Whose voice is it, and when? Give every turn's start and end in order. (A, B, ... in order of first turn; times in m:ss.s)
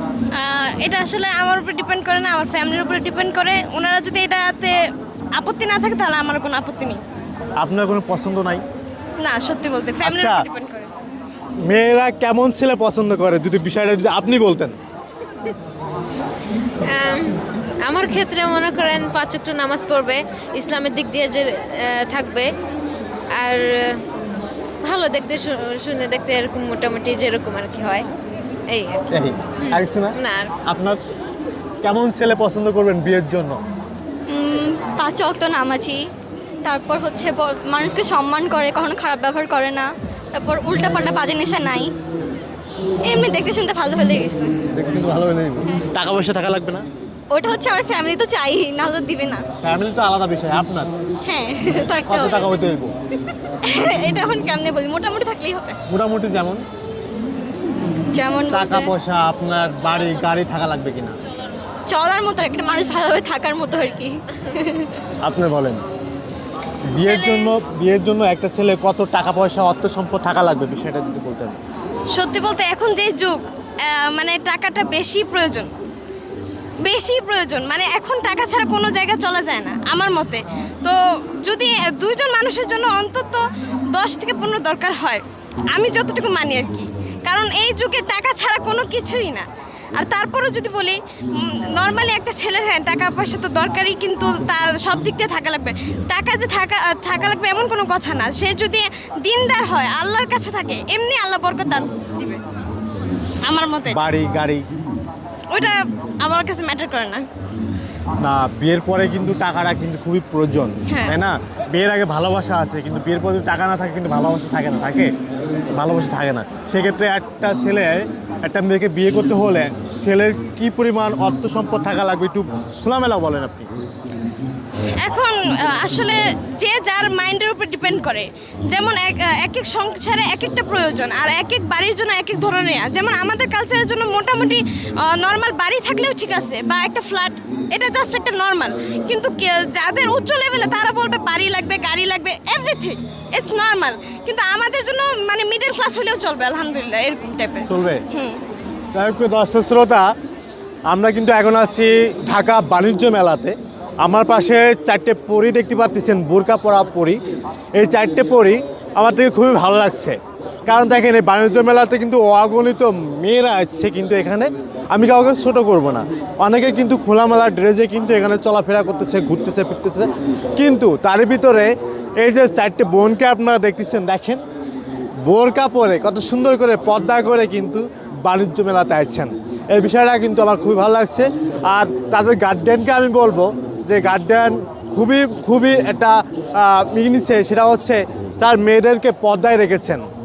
0:00.4-0:04.8 A
0:05.4-0:07.0 A
0:07.6-0:08.6 B
0:09.2-0:10.9 A
0:10.0-0:10.4 B
0:11.7-0:14.8 B
0:16.9-0:22.5 C
0:23.4-0:24.0 C
0:24.8-0:28.1 C
0:28.7-0:29.1 C
0:29.1-0:31.0 B
0:29.7-0:30.6 C
0:31.8-0:33.6 B
0:34.3-0:36.1 D
0:36.6-0:41.9 D
0:43.0-0:44.5 D
0:44.7-0:46.8 B
0:47.3-0:49.4 D
0:49.6-0:50.9 B
0:51.2-0:52.6 D
0:52.0-0:52.9 B
0:53.6-0:55.8 D
0:55.9-0:56.6 B
0:58.1-0:58.9 D
0:58.5-1:01.2 B
1:01.9-1:05.0 D
1:05.2-1:05.8 B
1:06.9-1:11.6 B
1:07.0-1:07.6 A
1:12.1-1:15.7 A
1:16.8-1:29.4 A
1:30.0-1:42.4 A
1:43.4-1:44.0 A
1:43.9-1:44.6 B
1:45.5-1:47.2 A
1:48.2-1:55.1 B
1:50.9-1:51.1 A
1:55.7-2:03.7 B
2:05.0-2:28.4 A
2:27.6-2:28.0 B
2:28.9-2:30.1 B
2:30.9-2:37.2 B
2:37.8-2:54.4 B
2:55.2-3:10.0 B